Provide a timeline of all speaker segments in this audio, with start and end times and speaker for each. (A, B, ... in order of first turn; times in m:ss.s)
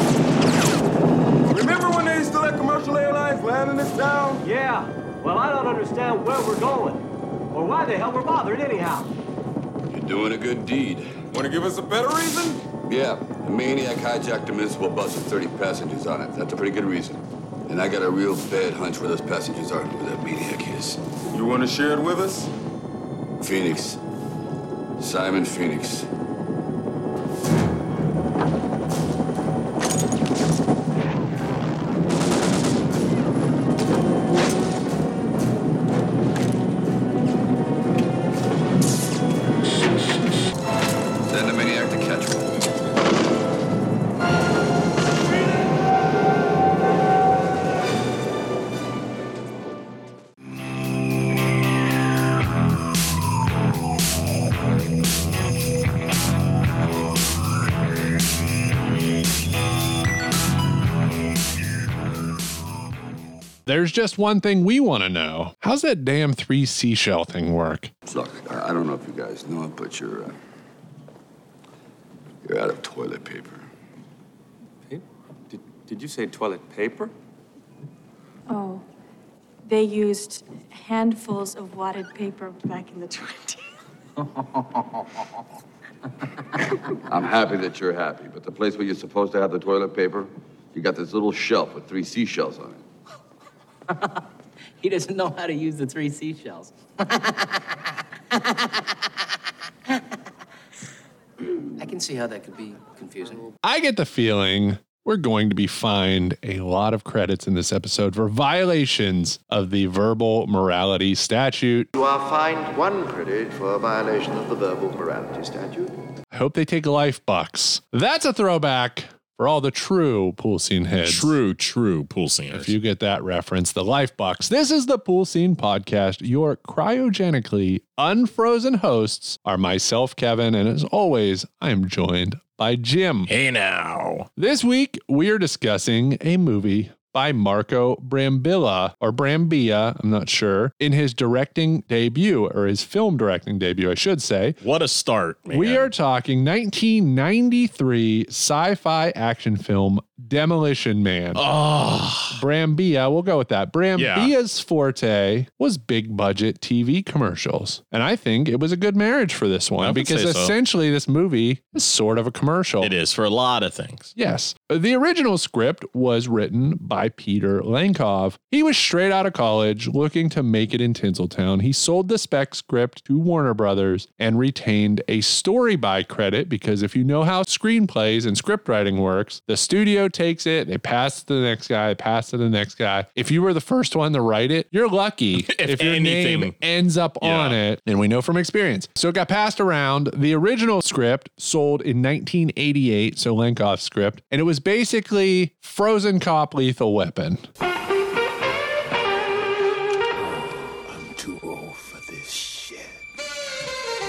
0:01.5-0:04.4 A
0:04.4-0:09.1 B
0:09.9-0:11.1 C
0:11.3-0:12.6 A
0:12.9-0:21.0 C
0:21.3-0:22.5 A
0:23.4-0:24.0 C
0:25.0-0:26.1 C
0:41.3-0:42.5 C
1:03.7-1:07.9 D
1:08.1-1:10.3 C
1:12.4-1:13.7 C
1:18.5-1:18.8 E
1:19.7-1:23.6 E
1:27.1-1:32.8 C
1:34.8-1:36.7 F
1:41.8-1:43.5 F
1:43.6-1:51.9 D
1:52.0-1:55.9 G
1:56.3-2:01.3 D
2:01.0-2:02.7 H
2:02.5-2:13.3 D
2:13.3-2:14.3 H
2:14.4-2:24.6 D
2:24.6-2:25.9 H
2:25.5-2:31.4 D
2:31.4-2:32.4 H
2:32.3-2:42.9 D
2:34.0-2:34.3 H
2:39.8-2:40.5 H
2:42.8-2:44.1 H
2:44.2-3:17.4 D
3:05.4-3:06.6 H
3:07.2-3:07.6 H
3:21.2-3:22.4 F